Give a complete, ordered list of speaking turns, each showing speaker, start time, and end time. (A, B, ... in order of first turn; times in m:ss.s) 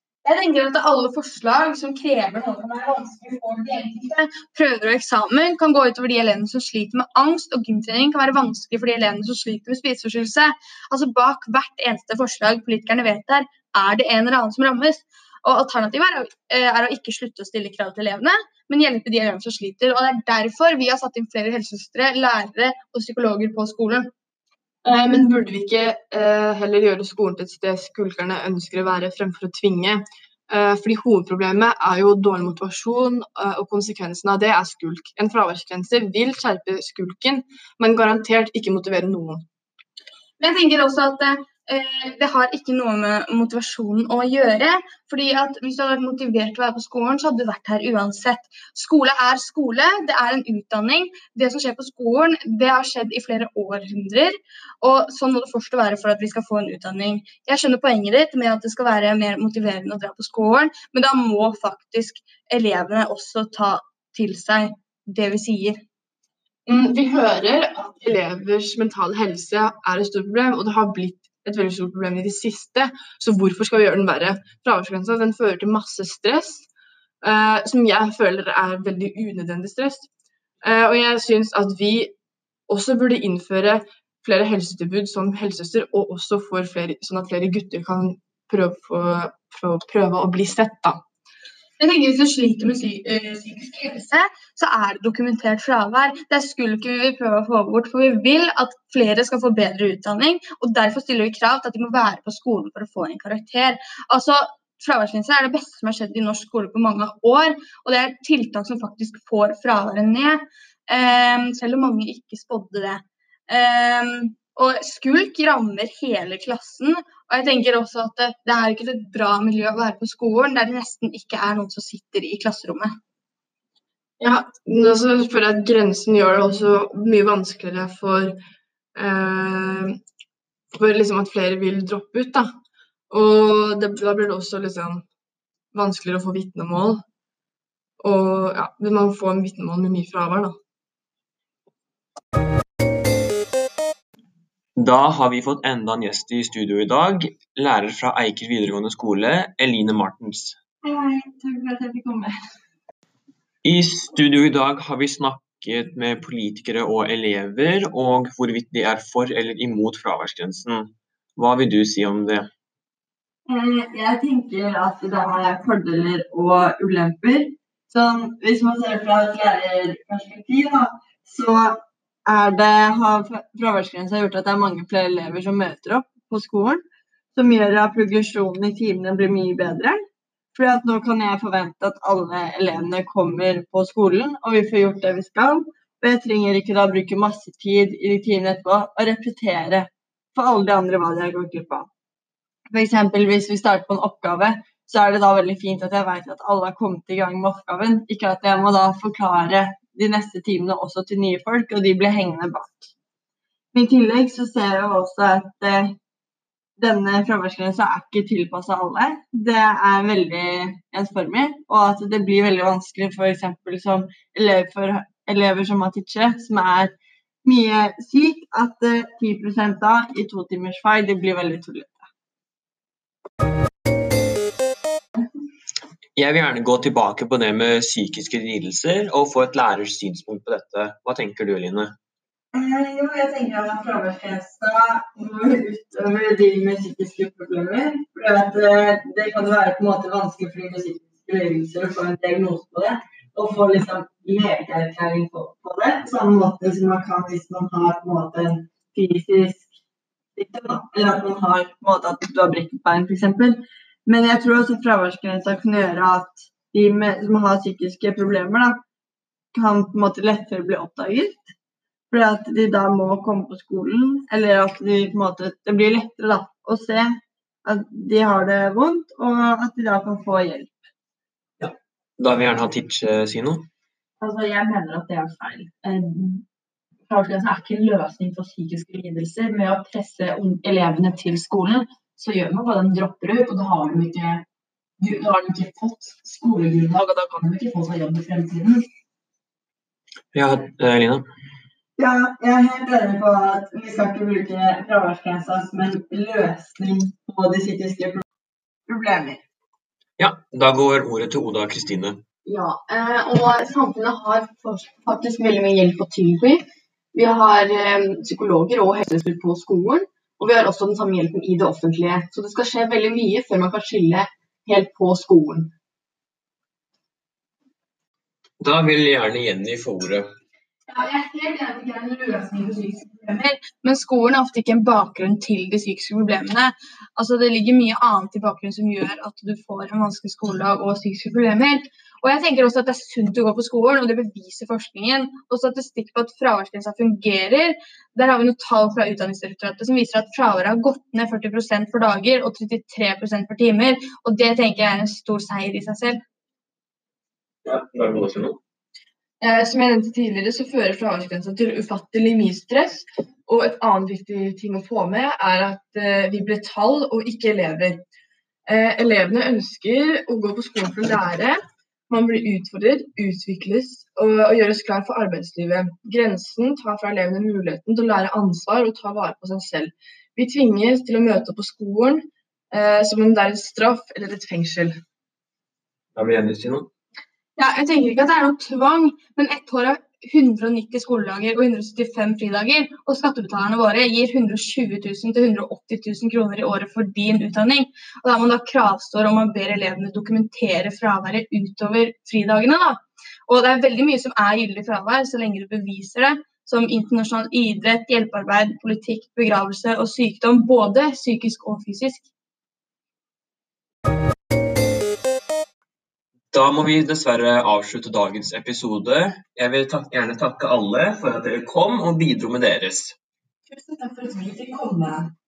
0:00.2-0:24.1 A
0:24.8-0:39.4 B
0:40.4-1:05.8 A
1:06.7-1:16.7 B
1:17.2-1:20.1 B
1:20.6-1:22.1 B
1:22.7-1:31.0 B
1:31.8-2:02.9 A
2:04.2-2:08.4 B
2:09.0-2:10.0 B
2:10.8-2:12.5 B
2:13.1-2:15.0 B
2:15.7-2:17.0 B
2:18.0-2:20.6 B
2:24.8-2:30.6 C
2:30.8-2:32.3 D
2:33.6-2:42.5 C
2:43.5-2:56.8 D
2:57.4-3:00.0 D
3:00.5-3:11.9 D
3:12.7-3:22.9 D
3:23.7-3:26.0 D
3:26.8-3:36.9 D
3:37.4-3:42.1 D
3:46.2-3:51.9 C
3:52.5-4:09.7 D
4:10.4-4:18.8 D
4:19.5-4:21.5 D
4:22.1-4:30.8 D
4:31.6-4:33.7 C
4:34.2-4:36.4 E
4:37.1-4:44.4 E
4:45.0-4:48.8 E
4:50.3-4:51.2 C
4:52.0-4:58.2 D
4:58.9-4:59.4 D
5:00.2-5:02.2 C
5:02.4-5:15.7 F
5:18.6-5:20.3 C
5:20.9-5:46.2 A
5:47.6-5:48.6 C
5:49.4-5:58.0 B
5:58.7-6:01.6 B
6:02.1-6:15.0 B
6:16.2-6:16.9 C
6:17.6-6:42.3 A
6:46.5-6:53.2 C
6:54.4-6:55.1 D